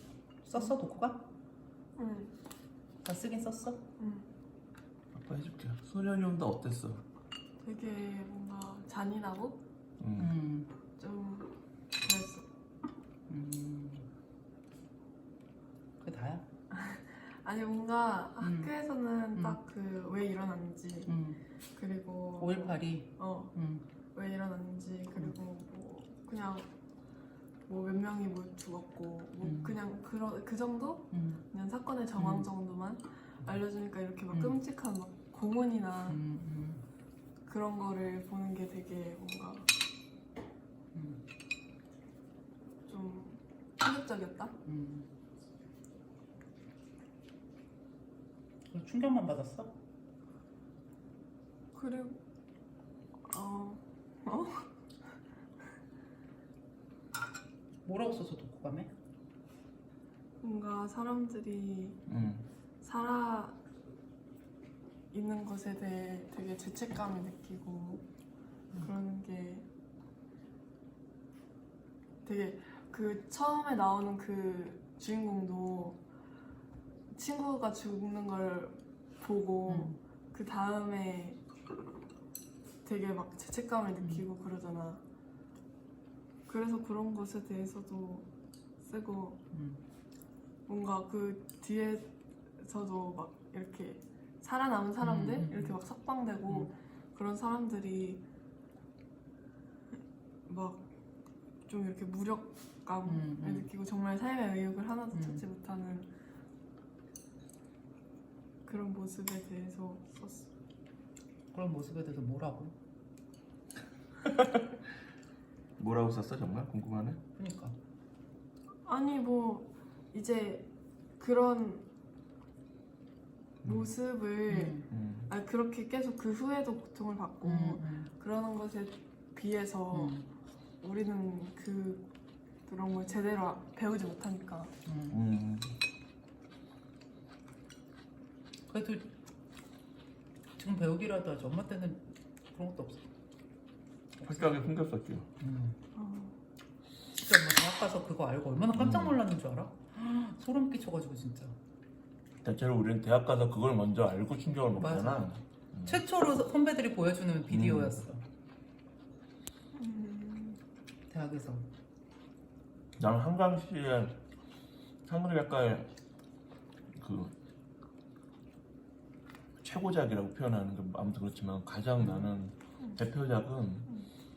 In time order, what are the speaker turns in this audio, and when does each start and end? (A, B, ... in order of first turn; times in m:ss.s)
0:00.4-0:01.2 A
0:02.0-0:02.3 B
0:03.0-0:03.8 A
0:04.0-0:04.3 B
0:05.1-0:07.0 C
0:07.6-0:09.6 B
0:10.0-0:10.3 C
0:10.2-0:10.7 A
0:11.0-0:12.5 B
0:13.3-0:14.1 A
0:16.0-0:16.4 A
0:16.7-0:21.1 B
0:18.4-0:18.7 A
0:21.0-0:21.4 A
0:21.7-0:23.5 B
0:22.4-0:23.8 A
0:24.1-0:26.7 B
0:27.7-0:36.2 B
0:29.4-0:29.8 A
0:31.1-0:31.4 A
0:32.2-0:32.5 A
0:34.3-0:34.6 A
0:36.1-0:36.8 A
0:37.4-0:39.7 B
0:40.9-0:41.2 A
0:42.9-0:44.5 B
0:44.6-0:45.1 A
0:48.7-0:49.7 A
0:51.7-0:52.2 B
0:53.3-0:54.6 B
0:57.8-0:58.9 A
1:00.4-1:02.0 B
1:02.1-1:02.5 C
1:02.8-1:03.6 B
1:05.1-1:08.0 B
1:08.8-1:09.6 B
1:12.2-1:16.0 B
1:17.1-1:21.4 B
1:19.7-1:20.0 A
1:22.8-1:25.0 B
1:24.0-1:24.2 A
1:26.5-1:28.3 B
1:28.8-1:29.4 B
1:29.5-1:29.8 A
1:30.7-1:38.2 B
1:35.0-1:35.8 A
1:40.5-1:40.8 B
1:41.7-1:46.1 B
1:43.1-1:43.7 A
1:45.1-1:45.4 A
1:48.6-1:50.5 B
1:51.5-1:52.7 A
1:54.2-1:54.7 C
1:55.8-1:57.2 C
1:57.4-1:57.8 A
1:58.8-2:00.7 B
2:01.2-2:01.8 B
2:03.6-2:03.9 C
2:03.6-2:10.2 B
2:04.5-2:04.9 A
2:04.9-2:05.3 C
2:07.4-2:08.1 A
2:09.9-2:10.3 A
2:10.8-2:12.1 B
2:12.7-2:14.7 B
2:14.8-2:15.2 A
2:15.1-2:15.8 C
2:18.7-2:19.1 A
2:20.6-2:23.1 A
2:24.2-2:24.7 A
2:24.2-2:25.3 C
2:25.4-2:25.8 A
2:25.9-2:26.3 B
2:27.1-2:31.6 A
2:28.7-2:29.2 C
2:32.4-2:36.0 C
2:34.8-2:35.3 A
2:35.8-2:38.2 A
2:37.5-2:38.1 C
2:39.7-2:40.6 B
2:41.1-2:41.7 A
2:43.0-2:44.2 C
2:45.0-2:45.9 C
2:47.0-2:47.4 C
2:49.6-2:53.9 C
2:52.0-2:52.3 A